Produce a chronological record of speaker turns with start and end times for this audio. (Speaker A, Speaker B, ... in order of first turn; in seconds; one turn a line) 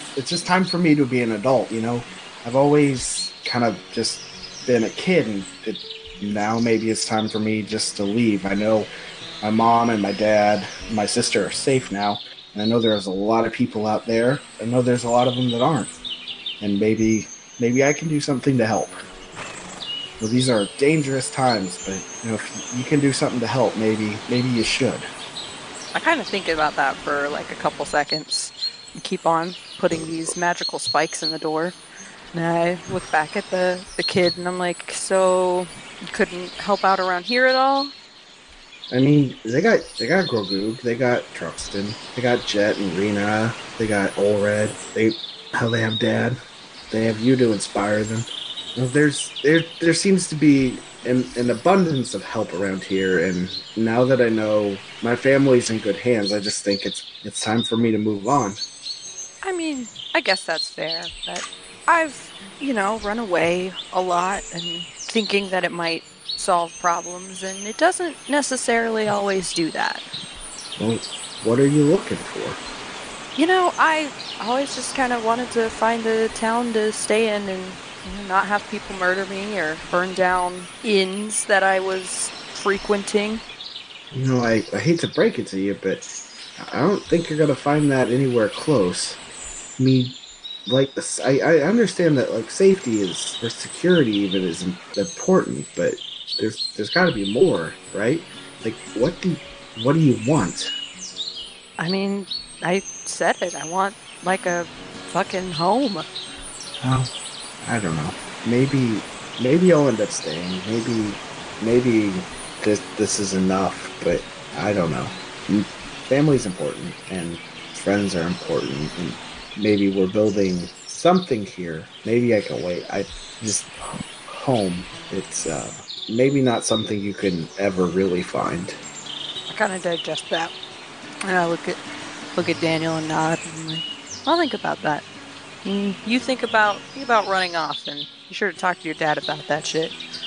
Speaker A: 0.1-8.9
Speaker A: 9.4-15.9
Speaker A: 16.6-19.0
Speaker A: 20.2-25.1
Speaker B: 25.9-31.8
Speaker B: 32.3-37.9
Speaker A: 38.9-46.4
Speaker A: 46.9-58.6
Speaker B: 59.4-70.0
Speaker A: 70.8-72.6
Speaker B: 73.4-83.4
Speaker A: 84.1-86.0
Speaker A: 86.6-89.2
Speaker A: 89.8-90.2
Speaker A: 90.7-100.7
Speaker B: 101.8-106.1
Speaker A: 106.8-107.1
Speaker A: 107.6-128.8
Speaker B: 129.5-130.5
Speaker B: 131.2-131.8
Speaker B: 132.3-135.0
Speaker B: 135.6-139.9